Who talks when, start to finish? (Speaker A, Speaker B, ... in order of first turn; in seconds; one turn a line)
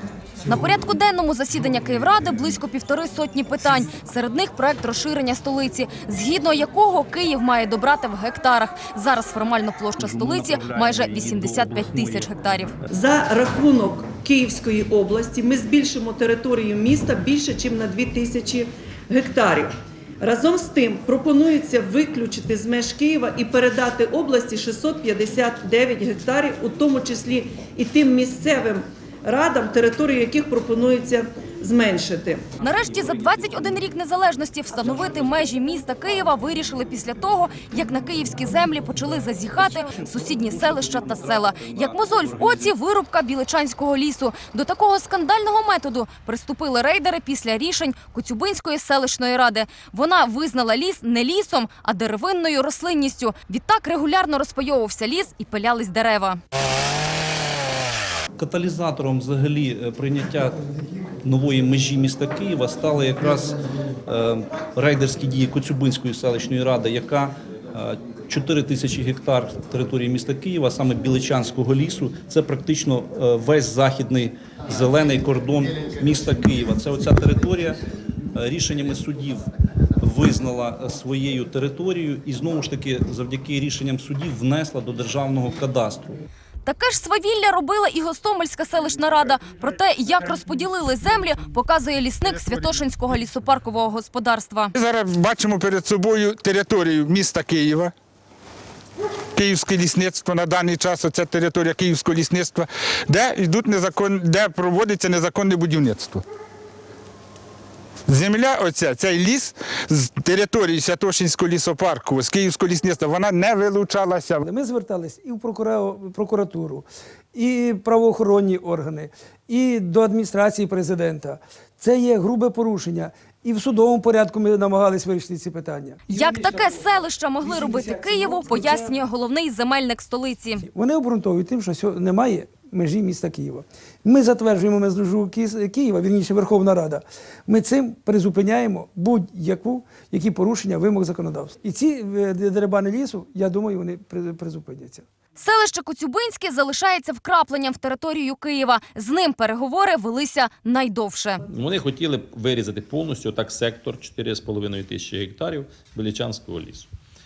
Speaker A: 0.4-12.7
Speaker B: 10.0-12.3
Speaker C: 12.9-32.5
Speaker A: 32.6-56.4
Speaker B: 39.6-42.7
Speaker B: 58.4-60.6
Speaker B: 61.2-77.8
Speaker B: 78.3-79.4
Speaker B: 80.0-86.2
Speaker A: 86.7-94.7
Speaker D: 94.7-97.9
Speaker D: 99.3-106.2
Speaker D: 108.1-114.4
Speaker E: 114.4-126.8
Speaker A: 126.1-130.6
Speaker E: 127.4-128.9
Speaker E: 130.6-145.1
Speaker A: 145.4-151.4
Speaker F: 151.5-156.9